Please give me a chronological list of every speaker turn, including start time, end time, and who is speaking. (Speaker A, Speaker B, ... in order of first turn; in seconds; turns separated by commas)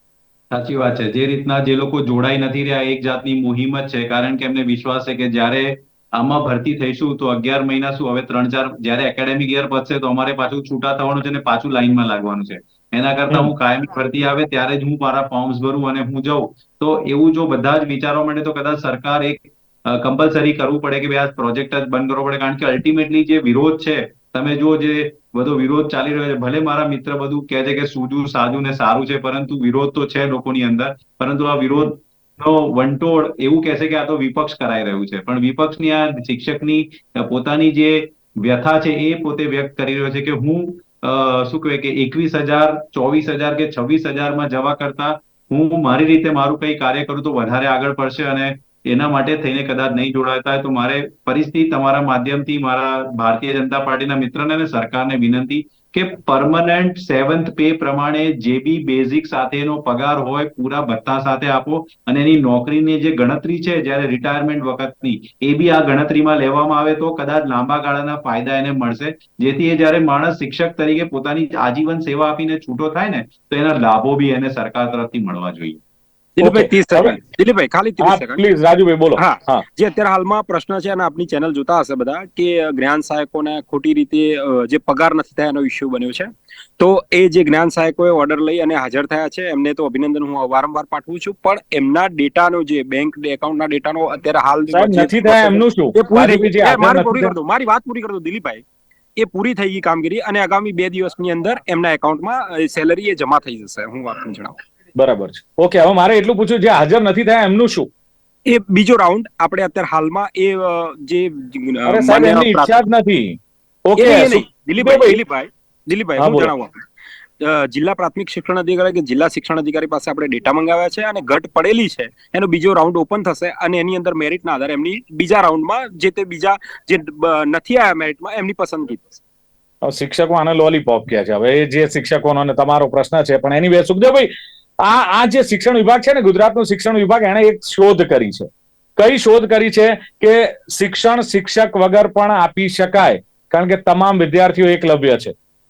Speaker A: 0.5-75.8, Speaker B: 76.4-78.4, Speaker C: 76.4-77.2, Speaker C: 78.0-79.6, Speaker B: 79.2-98.6, Speaker C: 94.7-97.3, Speaker B: 99.2-104.5, Speaker C: 105.0-107.9, Speaker B: 108.5-112.7, Speaker C: 111.9-115.2, Speaker B: 114.0-116.8, Speaker C: 116.2-116.5, Speaker B: 117.4-129.2, Speaker C: 129.8-134.3, Speaker C: 134.8-145.3